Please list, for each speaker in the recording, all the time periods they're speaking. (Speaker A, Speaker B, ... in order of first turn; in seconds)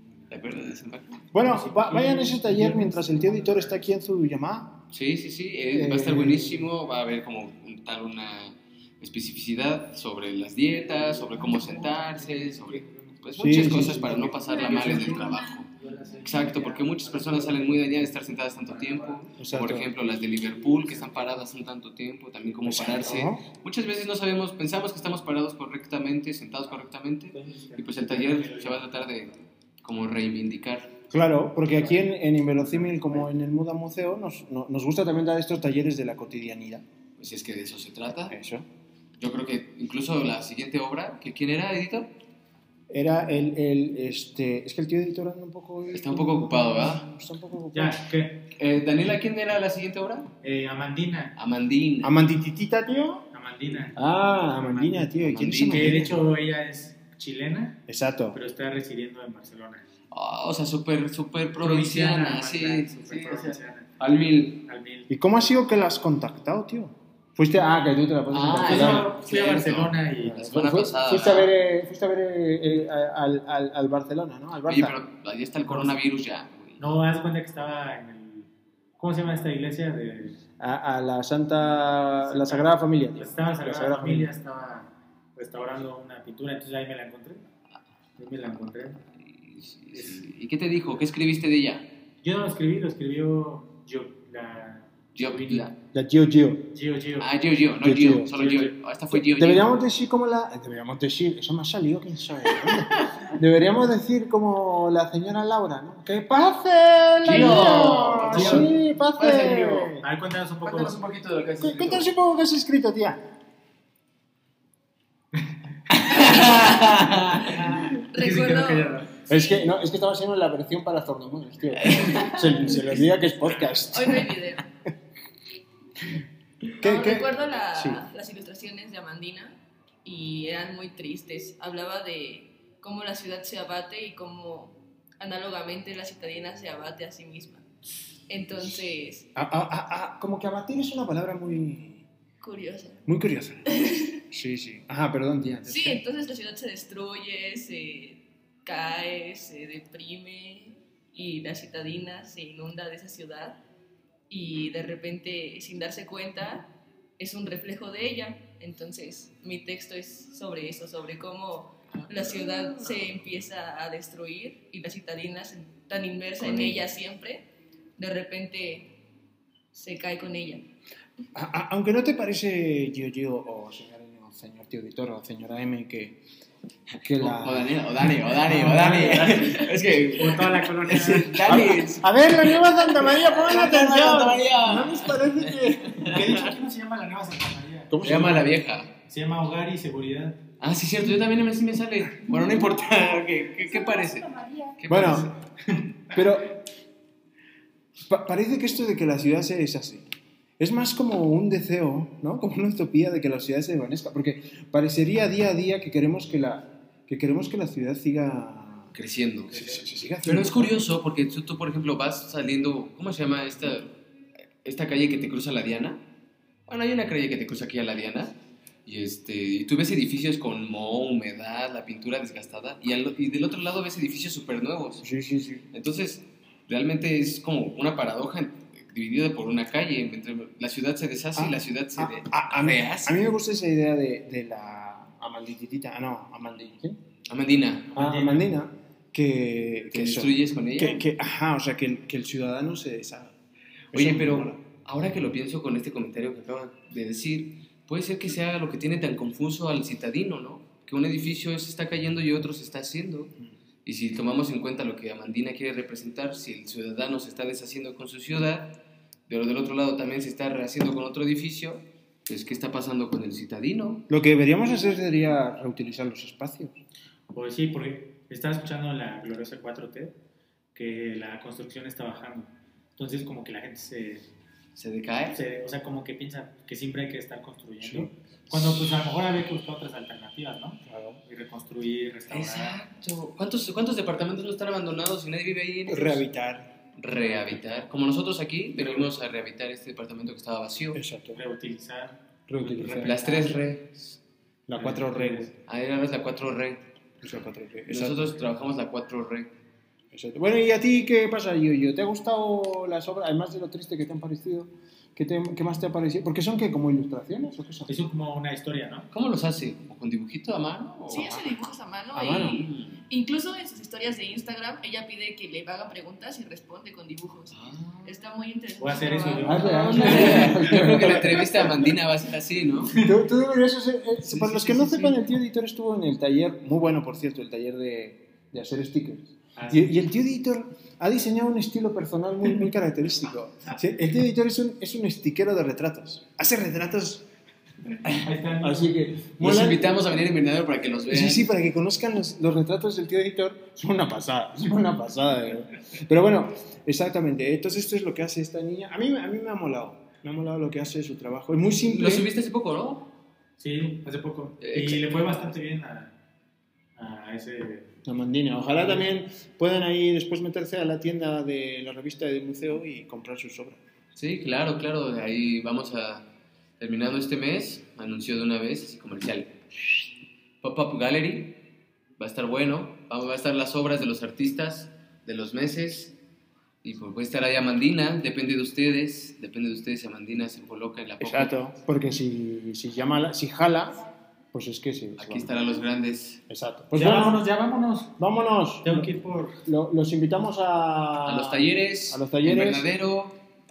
Speaker A: 0.3-1.3, 4.9-15.7, 16.2-30.9, 37.2-38.4, 39.2-42.1, 45.9-47.1, 48.6-50.3, 51.4-52.2, 55.2-56.1, 60.1-64.6, 68.3-71.5, 74.7-76.8, 89.3-91.9, 95.2-95.7, 97.2-99.8, 102.7-103.2, 107.2-110.0, 110.6-112.1, 115.9-117.9, 166.4-166.8, 177.2-186.3, 188.0-188.9, 190.6-194.3, 194.8-195.3, 208.9-214.0, 214.6-216.0, 216.7-225.1, 225.7-233.2, 237.3-237.9, 239.9-241.1, 243.9-253.3, 253.8-258.8, 259.3-264.1, 274.8-275.4, 282.3-286.2, 287.0-291.0, 292.9-294.0, 295.7-296.8, 297.9-299.5, 309.1-311.4, 312.3-313.0, 317.5-318.2, 319.6-323.0, 339.4-341.5, 351.8-353.1, 354.6-355.3, 364.2-366.3, 366.8-369.6, 370.6-371.6, 372.2-376.1, 376.8-381.6, 385.2-386.4, 391.2-393.4
Speaker B: 1.3-4.8, 5.7-6.7, 13.4-15.0, 19.4-19.9, 22.6-23.4, 31.1-36.9, 38.3-38.7, 42.9-48.0, 52.0-53.2, 54.0-56.1, 57.9-58.4, 65.1-69.1, 70.2-75.0, 80.6-84.3, 95.9-96.7, 97.8-98.3, 99.1-110.0, 111.6-113.2, 119.3-124.4, 126.8-128.0, 139.3-142.1, 143.1-143.7, 144.3-146.0, 171.3-176.2, 177.0-179.6, 181.4-186.2, 187.9-188.5, 194.9-195.3, 196.1-196.6, 198.1-200.1, 200.6-209.0, 209.5-210.8, 225.0-225.7, 231.4-237.0, 238.0-243.3, 243.9-244.6, 264.1-266.8, 277.8-278.8, 280.9-281.2, 285.9-286.7, 290.9-291.4, 292.5-293.2, 294.7-295.5, 297.2-298.4, 300.1-307.9, 312.1-312.6, 319.4-321.9, 323.0-337.2, 338.0-339.9, 341.1-352.3, 358.1-363.8, 381.2-385.5, 386.5-387.4, 388.2-389.1, 389.6-392.9
Speaker C: 1.4-3.8, 11.2-13.2, 14.1-21.5, 27.3-29.1, 32.7-33.0, 47.7-48.5, 50.4-51.4, 53.3-55.1, 55.6-57.8, 58.3-59.9, 61.6-65.1, 68.5-70.4, 75.7-76.0, 76.8-80.4, 82.2-87.4, 88.2-89.0, 89.9-90.3, 92.2-95.7, 96.7-97.4, 98.3-98.7, 107.3-108.7, 110.0-111.0, 115.3-119.1, 178.5-179.4, 180.2-181.7, 186.0-187.9, 189.1-190.4, 209.5-209.8, 237.9-238.5, 267.3-270.2, 270.7-274.3, 275.3-282.8, 288.8-289.1, 291.3-293.6, 294.7-295.5, 307.9-309.1, 318.8-320.5, 324.3-325.2, 329.6-330.0, 338.2-338.9, 353.6-356.1, 357.0-357.9, 358.7-359.1, 386.9-388.2, 388.8-389.6
Speaker D: 118.1-119.7, 121.9-122.5, 123.9-124.7, 126.8-137.7, 138.3-139.3, 142.4-143.1, 143.7-144.2, 145.6-153.6, 154.3-168.9, 169.7-170.7, 311.1-320.5
Speaker E: 192.3-195.1